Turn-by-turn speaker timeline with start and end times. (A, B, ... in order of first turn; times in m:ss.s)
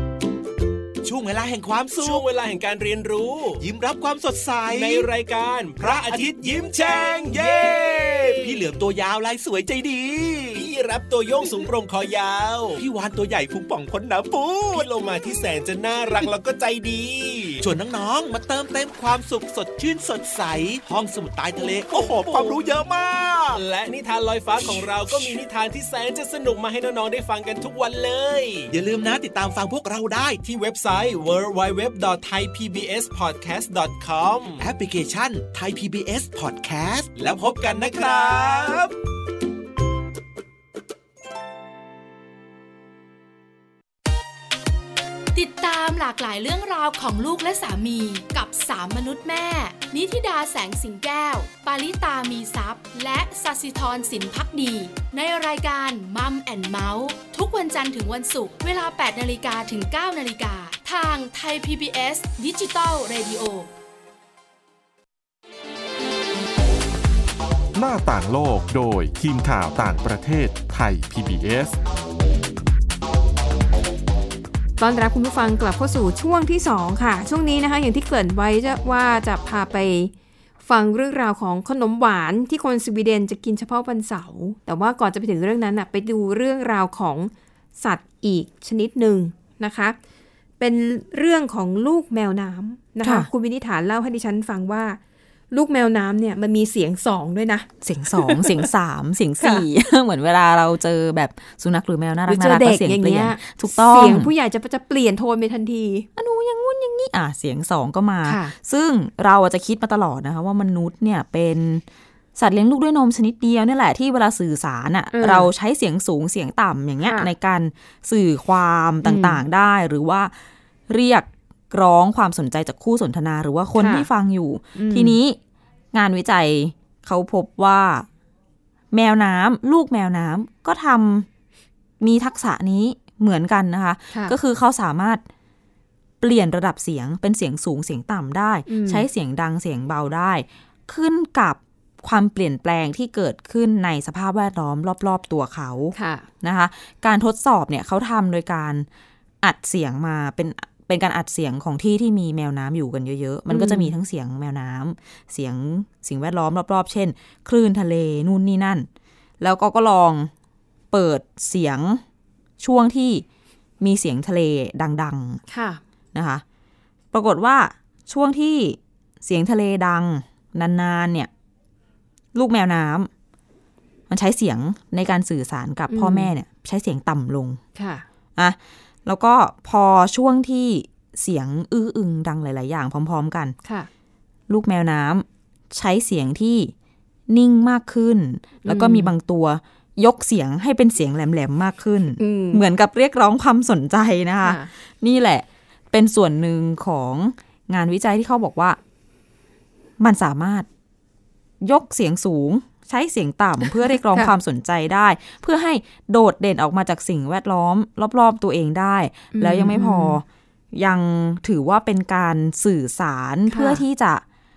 0:01.0-0:02.2 A
0:01.9-0:03.6 B
0:03.6-0:05.1 A
0:04.7-0:08.6 B
0:05.8-0:10.6 A
0:10.6-0:12.8 B
0:12.8-0:14.9 A
0:14.7-0:17.6 B
0:17.6-0:23.6 A
0:22.0-0:22.6 B
0:23.6-0:28.7 B
0:28.7-0:30.4 A
0:30.4-0:34.6 B
0:34.6-0:38.8 A
0:37.2-0:38.9 B
0:45.3-1:03.7 C
1:07.8-1:11.8 D
1:14.8-1:20.1 E
1:20.6-1:30.0 E
1:30.6-1:35.0 E
1:33.0-1:33.3 F
1:35.5-1:38.7 E
1:37.8-1:44.3 F
1:39.4-1:39.6 E
1:42.3-1:46.1 E
1:46.2-1:51.8 F
1:48.2-1:48.5 E
1:52.4-2:00.3 F
1:55.1-1:55.5 E
1:57.0-1:57.3 E
1:59.0-1:59.4 E
2:00.9-2:05.4 F
2:03.8-2:04.1 E
2:04.8-2:05.2 E
2:05.9-2:08.1 F
2:08.9-2:11.3 F
2:12.0-2:15.2 F
2:14.1-2:14.4 E
2:16.2-2:28.9 F
2:18.7-2:19.1 E
2:26.0-2:26.3 E
2:29.4-2:38.9 F
2:33.5-2:33.9 E
2:39.4-2:40.3 F
2:40.9-2:42.0 F
2:42.6-2:43.2 F
2:43.8-2:45.4 F
2:45.5-2:45.8 E
2:46.1-2:46.4 F
2:47.1-2:51.3 F
2:52.3-2:53.1 F
2:54.1-2:57.6 F
2:55.9-2:56.3 E
2:57.8-2:58.1 E
2:58.4-3:03.6 F
3:04.5-3:06.7 F
3:07.3-3:18.8 F
3:08.6-3:09.1 E
3:12.2-3:12.6 E
3:14.4-3:14.7 E
3:20.0-3:20.7 F
3:21.6-3:34.2 F
3:29.3-3:30.2 E
3:33.5-3:33.8 E